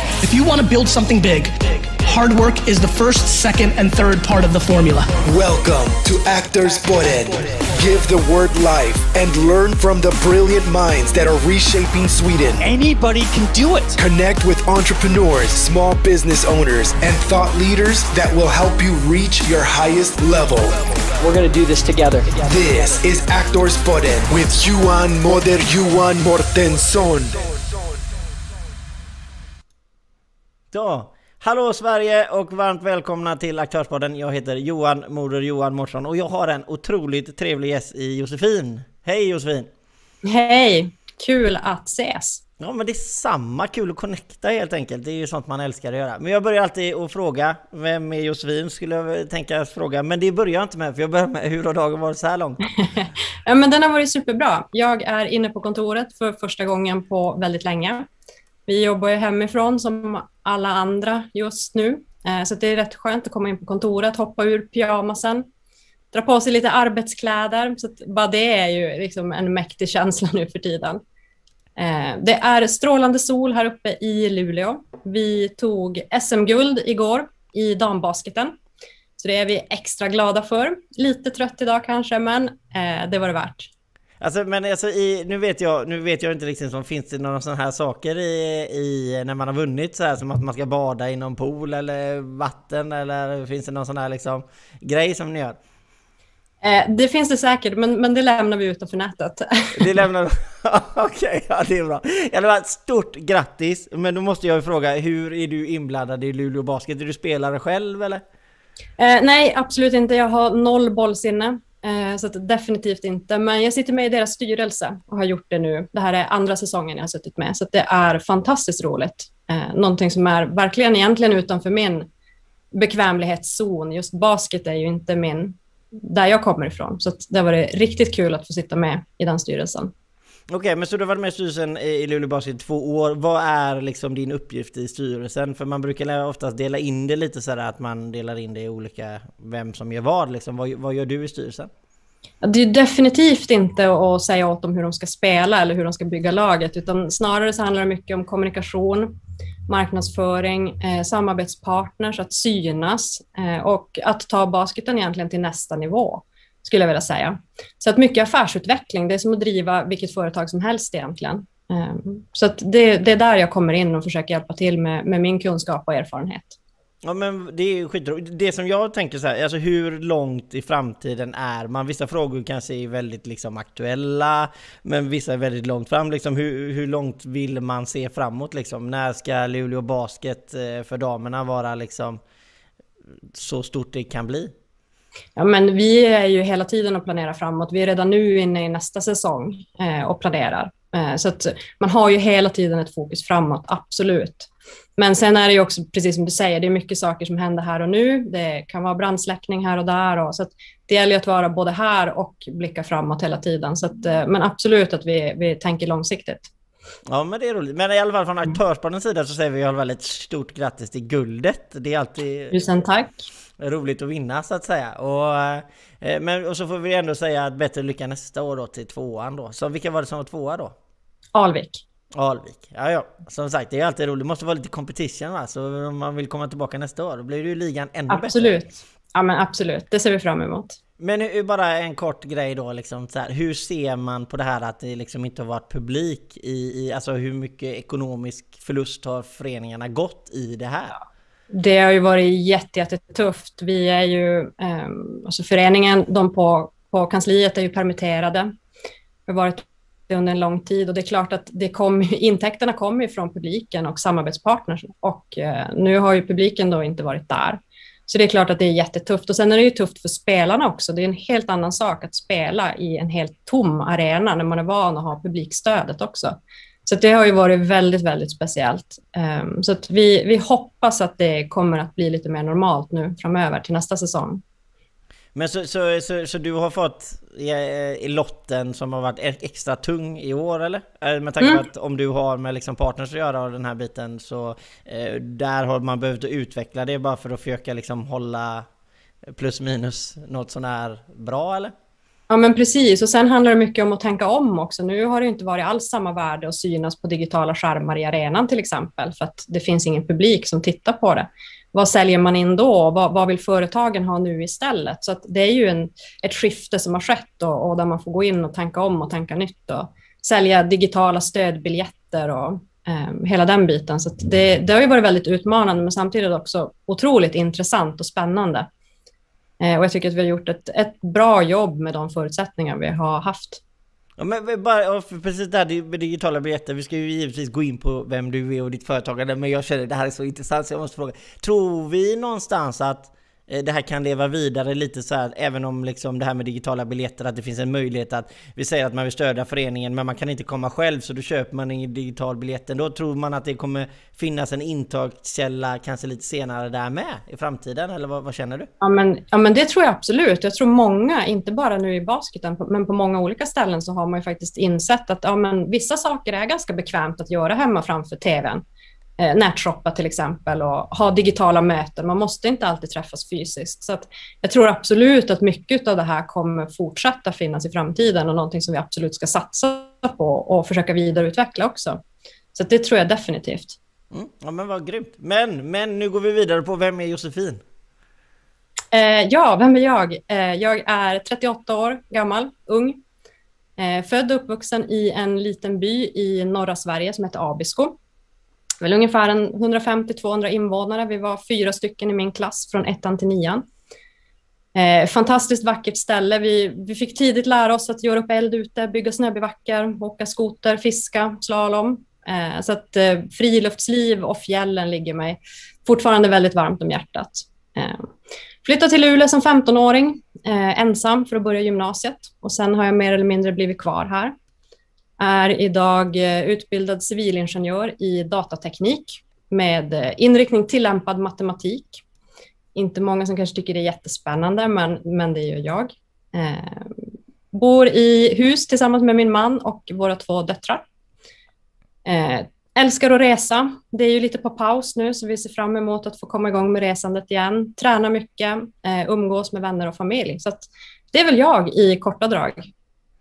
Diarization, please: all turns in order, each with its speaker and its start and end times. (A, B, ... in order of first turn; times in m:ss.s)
0:00.2-0:05.1 A
0:05.2-0:12.6 B
0:12.6-0:14.0 C
0:14.0-0:20.7 B
0:21.2-0:23.0 C
0:22.5-0:27.4 B
0:30.7-0:39.7 D
0:40.2-0:42.4 E
0:42.6-0:52.8 D
0:53.4-0:58.1 E
0:58.7-1:05.4 E
1:06.1-1:11.0 E
1:11.8-1:18.5 E
1:19.2-1:23.7 E
1:24.2-1:35.6 D
1:36.6-1:40.0 E
1:39.8-1:48.2 D
1:49.0-2:02.1 E
2:02.7-2:09.9 E
2:10.5-2:21.7 D
2:22.4-2:29.1 E
2:29.7-2:46.6 E
2:47.0-3:02.2 D
3:03.3-3:04.5 D
3:05.4-3:26.5 E
3:27.1-3:32.6 D
3:32.5-3:33.2 E
3:33.6-3:40.7 D
3:41.3-3:41.8 E
3:42.1-3:48.6 D
3:48.1-3:50.8 E
3:51.0-4:01.0 D
4:01.5-4:08.5 E
4:09.3-4:34.4 E
4:35.3-4:48.6 D
4:49.3-4:51.7 D
4:52.3-5:18.7 E
5:19.6-5:23.6 E
5:24.2-5:48.7 D
5:48.8-5:58.6 E
5:59.2-6:12.0 E
6:12.5-6:13.8 E
6:14.1-6:17.6 D
6:18.9-6:23.0 E
6:23.8-6:27.9 E
6:28.8-6:33.6 E
6:34.7-6:48.1 E
6:48.6-6:54.3 E
6:55.2-7:02.0 E
7:02.7-7:10.8 E
7:12.0-7:22.7 E